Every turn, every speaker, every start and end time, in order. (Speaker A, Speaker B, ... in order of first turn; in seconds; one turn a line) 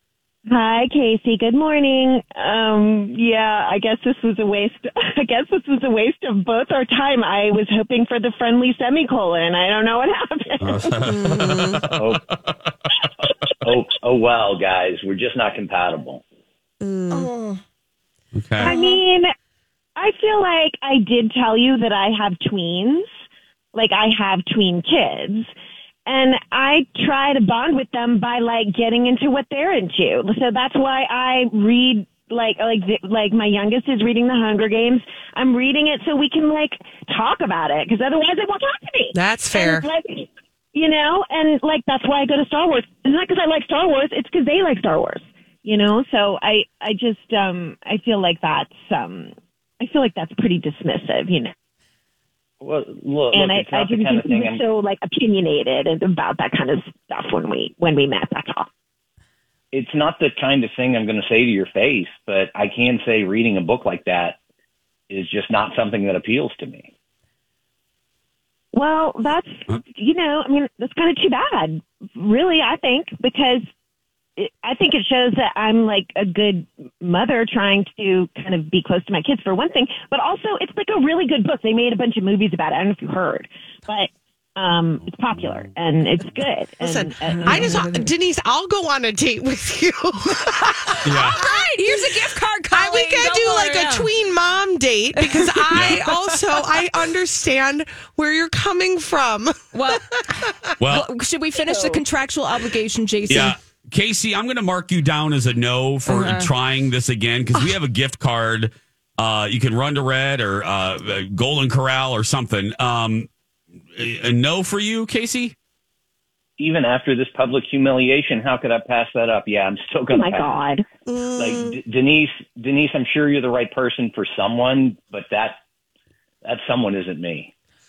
Speaker A: 0.5-11.4
Speaker B: 10.6-12.0
Speaker C: 11.1-11.8
Speaker D: 11.9-12.2
Speaker D: 13.6-16.2
Speaker C: 16.8-17.3
Speaker E: 17.1-17.6
Speaker B: 18.3-18.8
Speaker A: 18.6-19.3
Speaker E: 18.6-18.9
Speaker A: 20.0-23.1
Speaker A: 23.7-25.5
Speaker A: 26.1-51.5
Speaker C: 39.1-39.9
Speaker D: 52.6-54.6
Speaker A: 53.3-58.7
Speaker D: 59.7-64.4
Speaker D: 65.1-66.9
Speaker A: 68.7-73.6
Speaker A: 74.4-87.9
Speaker C: 86.8-90.8
Speaker E: 87.3-88.1
Speaker E: 90.5-94.1
Speaker B: 91.0-91.4
Speaker C: 91.3-92.1
Speaker C: 92.7-100.7
Speaker E: 95.2-95.9
Speaker B: 95.7-96.0
Speaker E: 99.7-103.6
Speaker B: 100.8-101.1
Speaker B: 103.3-113.3
Speaker E: 106.1-106.5
Speaker B: 114.0-115.5
Speaker D: 116.6-120.5
Speaker A: 120.1-120.8
Speaker C: 121.1-121.8
Speaker D: 121.4-125.6
Speaker D: 126.4-127.5